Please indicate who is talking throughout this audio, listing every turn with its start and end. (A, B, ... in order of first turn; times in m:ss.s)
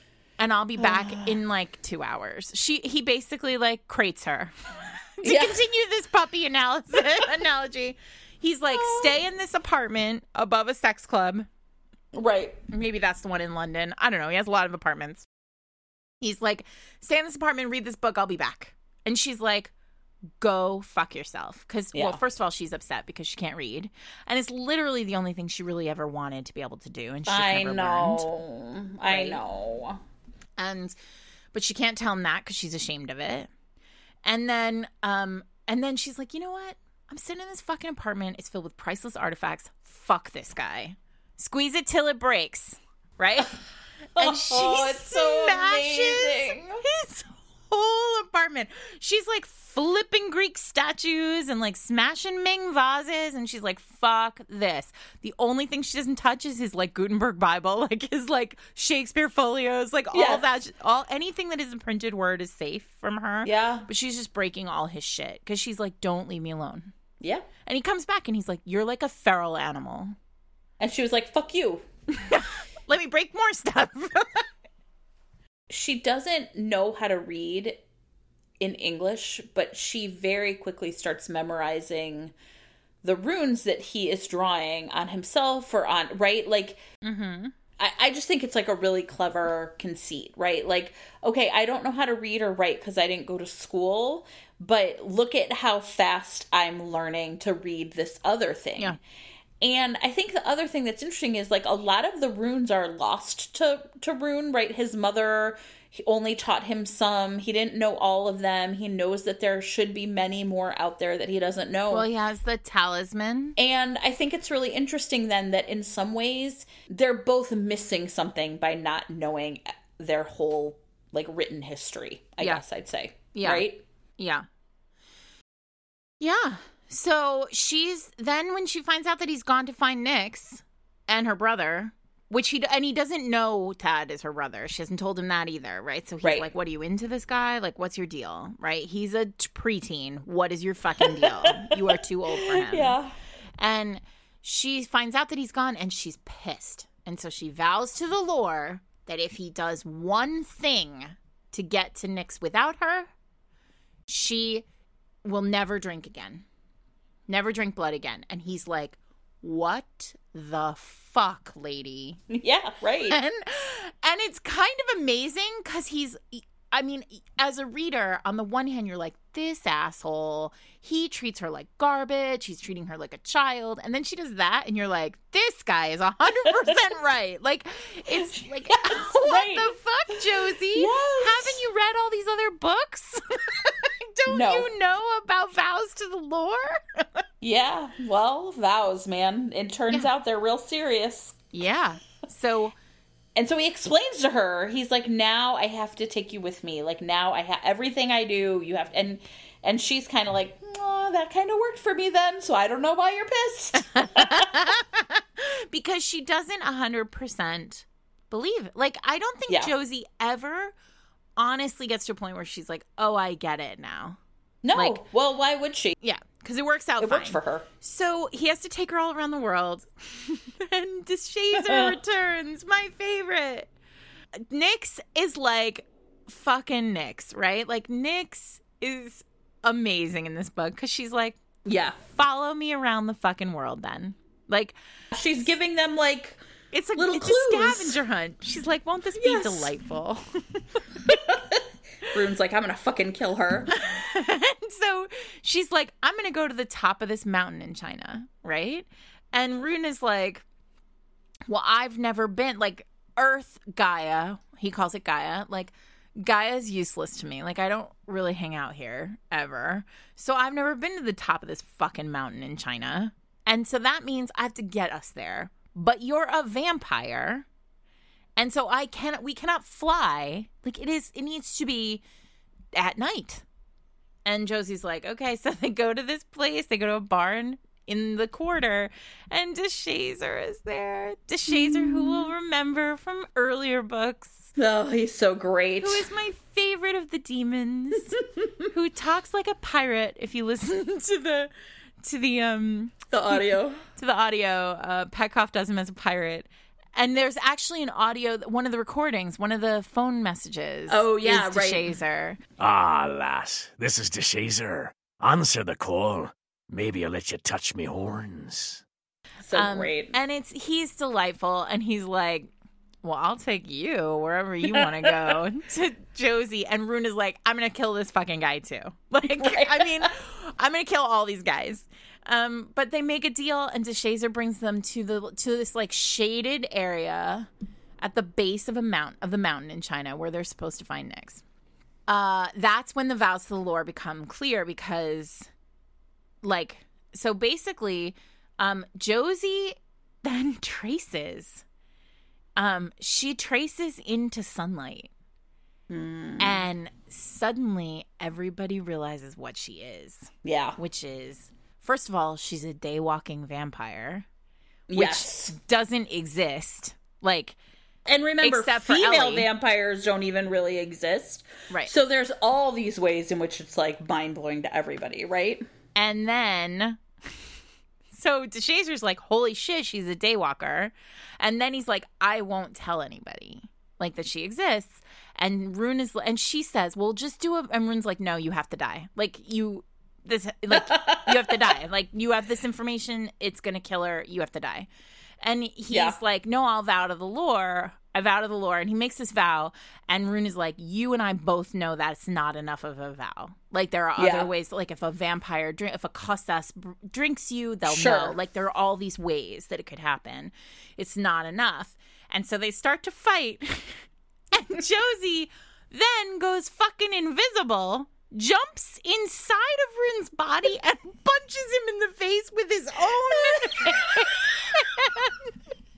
0:00.4-0:11.5 A
0:00.8-0:01.4 B
0:05.2-0:05.6 B
0:08.7-0:09.2 B
0:12.1-0:12.6 B
0:12.7-0:15.3 A
0:16.2-0:19.7 A
0:20.4-0:28.2 A
0:21.9-0:22.2 B
0:27.3-0:30.0 B
0:29.1-0:29.4 A
0:30.6-0:31.0 A
0:31.5-0:33.5 A
0:34.2-0:43.6 A
0:44.2-0:46.8 B
0:44.2-1:06.9 A
1:00.1-1:00.4 B
1:03.4-1:03.9 B
1:07.2-1:07.5 B
1:07.6-1:10.2 A
1:10.8-1:11.9 B
1:12.2-1:14.5 A
1:15.7-1:17.8 B
1:18.6-1:22.4 B
1:23.0-1:26.8 B
1:27.0-1:27.5 A
1:27.8-1:39.0 B
1:39.6-1:52.1 B
1:51.9-1:53.6 A
1:53.6-2:03.8 B
2:03.3-2:03.7 A
2:04.2-2:04.5 A
2:06.2-2:23.0 A
2:16.2-2:16.5 B
2:21.0-2:23.2 B
2:23.6-2:33.1 A
2:34.1-2:34.6 A
2:35.2-2:36.4 A
2:37.3-2:42.2 A
2:42.3-2:43.2 B
2:43.1-3:07.2 A
2:56.4-2:56.8 B
2:58.2-2:59.7 B
3:00.7-3:01.6 B
3:04.3-3:04.7 B
3:07.4-3:11.4 B
3:11.5-3:12.8 A
3:13.4-3:24.5 B
3:23.8-3:30.7 A
3:31.4-3:34.2 A
3:34.6-3:36.0 B
3:34.7-3:35.0 A
3:36.0-3:43.7 A
3:37.0-3:37.7 B
3:41.6-3:41.9 B
3:44.5-3:51.4 A
3:51.6-3:52.0 B
3:52.0-3:54.8 A
3:55.1-3:56.4 B
3:56.7-4:00.6 A
3:57.0-3:58.0 B
3:59.2-3:59.7 B
4:01.1-4:03.7 B
4:03.7-4:10.4 A
4:11.5-4:27.5 A
4:28.4-4:32.0 A
4:32.8-4:33.4 A
4:34.2-4:44.5 A
4:41.5-4:42.3 B
4:44.6-4:46.1 B
4:45.8-4:51.5 A
4:52.0-4:53.4 A
4:53.1-4:53.8 B
4:54.0-5:02.4 A
5:00.9-5:02.0 B
5:02.6-5:08.8 C
5:09.5-5:10.2 B
5:09.5-5:12.5 A
5:13.0-5:27.5 A
5:14.7-5:15.4 B
5:19.2-5:20.1 B
5:28.0-5:31.4 A
5:32.1-5:35.5 A
5:36.4-5:41.6 A
5:42.6-5:45.1 A
5:45.9-5:46.6 B
5:46.4-5:54.3 A
5:50.4-5:50.8 B
5:54.9-5:55.6 B
5:54.9-5:57.6 A
5:58.1-6:05.6 B
5:58.4-5:59.5 A
6:06.0-6:07.4 A
6:08.1-6:24.9 A
6:20.7-6:21.6 B
6:25.4-6:55.5 A
6:25.9-6:26.2 B
6:34.2-6:34.5 B
6:37.9-6:38.4 B
6:53.4-6:54.3 B